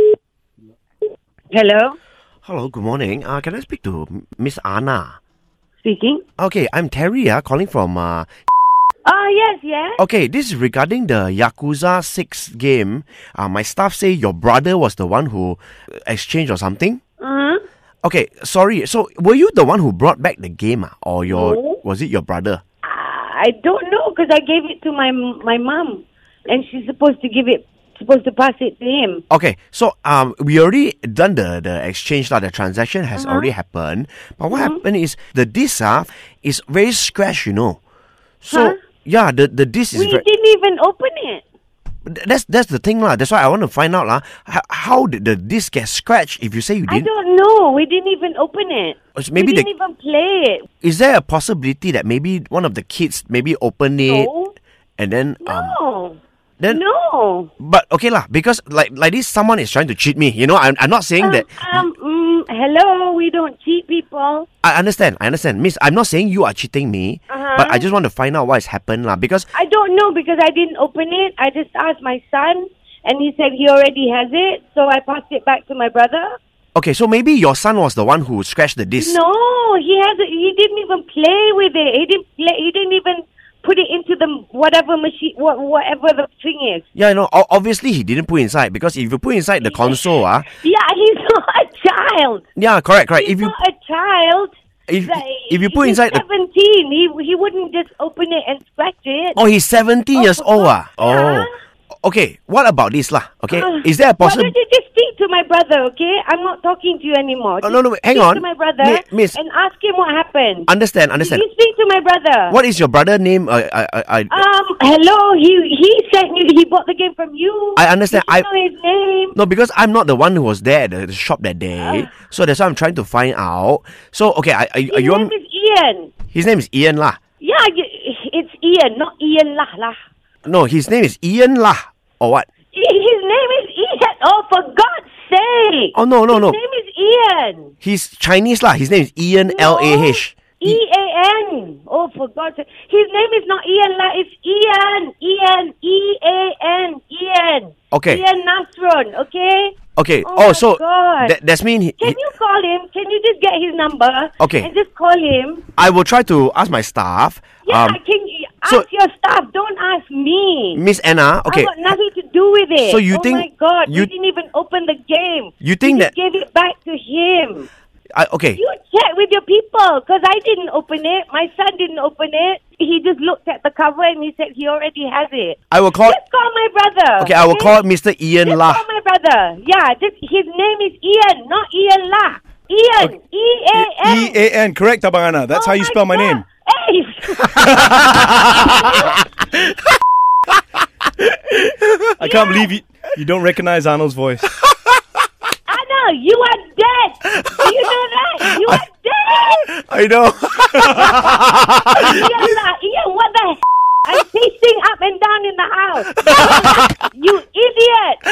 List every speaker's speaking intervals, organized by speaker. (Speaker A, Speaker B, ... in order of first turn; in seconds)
Speaker A: 1.5-2.0, 5.8-6.2, 9.1-10.0, 17.2-17.6, 21.3-21.8, 22.8-29.2, 33.2-33.5, 34.5-34.8, 38.5-38.8, 39.9-41.4, 46.9-50.7, 54.0-54.5, 55.4-56.2, 56.7-57.5, 61.2-64.5, 67.3-67.9, 69.5-76.3, 79.0-86.8, 89.6-92.5, 93.2-94.5, 95.0-99.4, 100.1-101.5, 103.5-112.6, 114.3-119.4, 121.8-122.1, 124.9-126.1, 127.4-130.0, 132.7-137.7, 139.5-151.3, 152.0-155.7, 157.7-160.8, 161.5-167.7, 168.6-177.8, 178.4-184.4, 185.5-189.2, 192.2-192.7, 195.7-199.7, 200.8-208.2
Speaker B: 2.5-5.2, 6.4-8.3, 10.0-17.0, 18.0-22.6, 29.3-37.8, 38.4-40.2, 42.1-47.1, 49.2-49.7, 50.8-54.3, 55.0-55.8, 57.6-61.9, 64.6-69.5, 76.8-79.2, 87.0-90.5, 92.6-93.5, 94.9-96.2, 99.3-101.5, 102.0-104.5, 107.6-109.4, 110.7-111.4, 112.5-114.4, 117.8-118.5, 119.3-125.3, 126.3-127.2, 130.4-132.5, 135.9-136.6, 137.8-140.8, 147.9-148.2, 150.0-152.2, 154.4-154.7, 155.8-158.0, 160.7-161.7, 162.8-164.1, 165.6-166.1, 168.1-168.6, 175.7-176.2, 177.2-178.8, 191.5-192.0, 199.6-202.3, 206.3-206.9
Speaker C: 183.8-186.4, 187.6-188.8, 192.2-194.5